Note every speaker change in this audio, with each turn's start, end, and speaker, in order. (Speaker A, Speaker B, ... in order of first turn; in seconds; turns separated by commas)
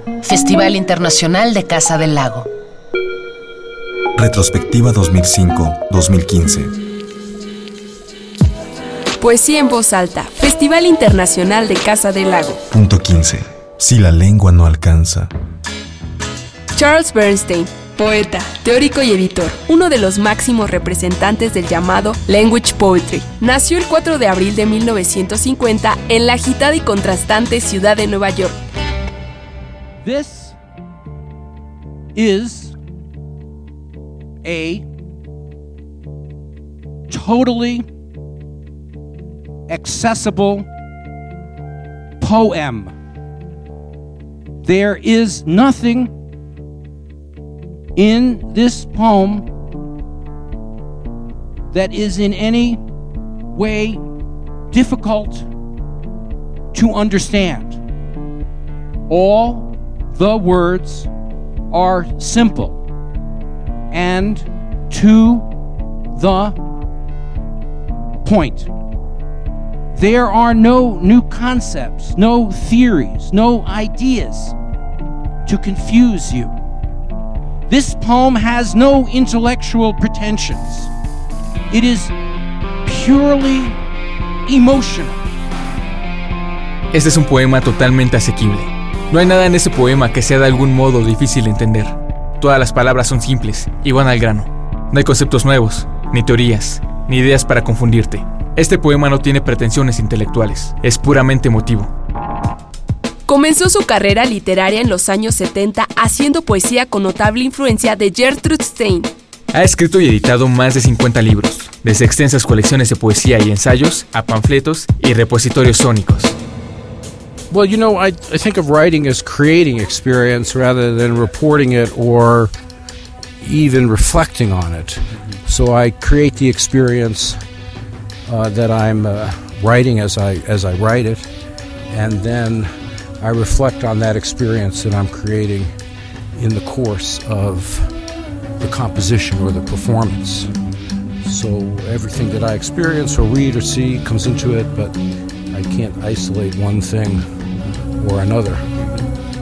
Speaker A: 0.2-2.5, Speaker B: 4.2-6.7, Speaker C: 9.2-12.6, Speaker B: 12.7-15.3, Speaker C: 16.7-28.6, Speaker D: 30.0-30.5, Speaker D: 32.2-32.7, Speaker D: 34.5-34.8, Speaker D: 37.1-37.8, Speaker D: 39.7-40.7, Speaker D: 42.2-42.9, Speaker D: 44.8-46.1, Speaker E: 48.0-49.0, Speaker D: 48.4-49.5, Speaker D: 51.7-52.8, Speaker E: 53.5-54.0, Speaker D: 53.6-54.0, Speaker E: 54.7-55.5, Speaker D: 54.8-55.2, Speaker D: 56.9-57.6, Speaker D: 59.1-59.5, Speaker D: 60.3-61.0, Speaker D: 61.7-62.7, Speaker D: 64.0-64.2, Speaker E: 64.2-64.9, Speaker D: 65.0-65.4, Speaker E: 66.2-66.5, Speaker E: 68.3-68.7, Speaker E: 70.0-71.2, Speaker D: 71.2-74.5, Speaker E: 72.0-72.4, Speaker D: 75.5-76.5, Speaker D: 77.7-80.5, Speaker E: 80.2-80.9, Speaker E: 81.7-82.1, Speaker D: 82.9-83.7, Speaker D: 84.6-85.2, Speaker F: 86.9-101.9, Speaker C: 103.3-109.1, Speaker F: 109.5-116.4, Speaker E: 117.5-122.5, Speaker E: 123.4-127.4, Speaker E: 128.3-131.3, Speaker E: 131.9-135.7, Speaker E: 136.3-137.9, Speaker E: 138.6-140.5, Speaker E: 141.2-145.0, Speaker E: 145.5-147.2, Speaker E: 148.0-148.8